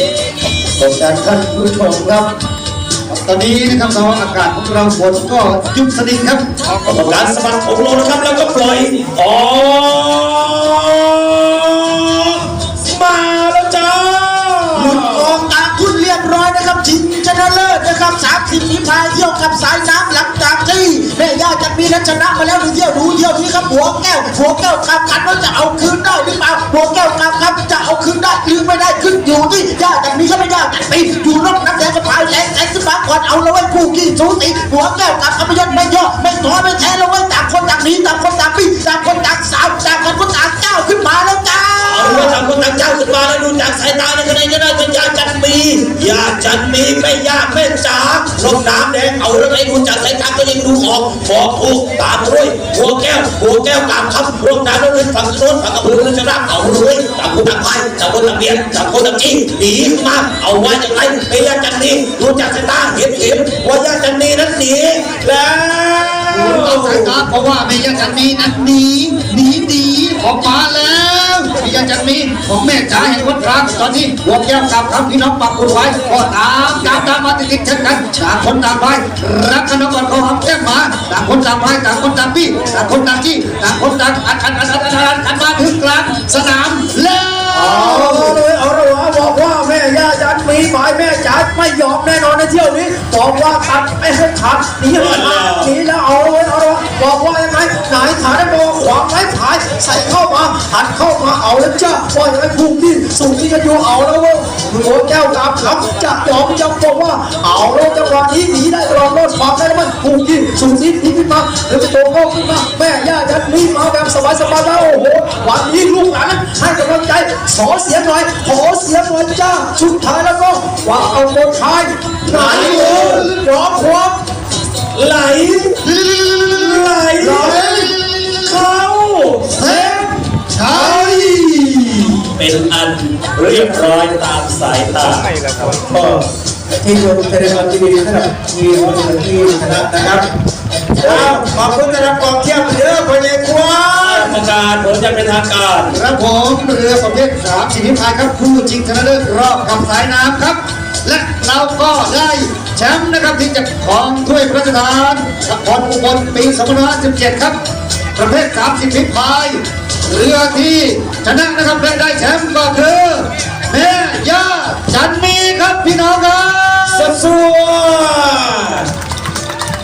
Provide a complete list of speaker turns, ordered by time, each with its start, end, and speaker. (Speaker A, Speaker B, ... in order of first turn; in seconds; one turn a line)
Speaker A: 0.8-2.3
Speaker B: 3.1-6.4
Speaker C: 6.8-15.4
Speaker D: 14.7-42.4
Speaker C: 41.8-67.2
Speaker B: 66.3-88.4
Speaker A: 87.5-124.1
Speaker C: 94.9-95.7
Speaker C: 122.3-123.3
Speaker B: 122.5-123.3
Speaker C: 124.9-125.8
Speaker B: 125.8-128.6
Speaker C: 126.4-127.9
Speaker C: 128.5-130.1
Speaker B: 129.6-131.4
Speaker C: 130.7-131.7
Speaker C: 132.3-136.2
Speaker A: 136.8-140.2
Speaker C: 141.0-146.0
Speaker B: 145.9-157.6
Speaker B: 158.2-167.2
Speaker C: 166.9-168.9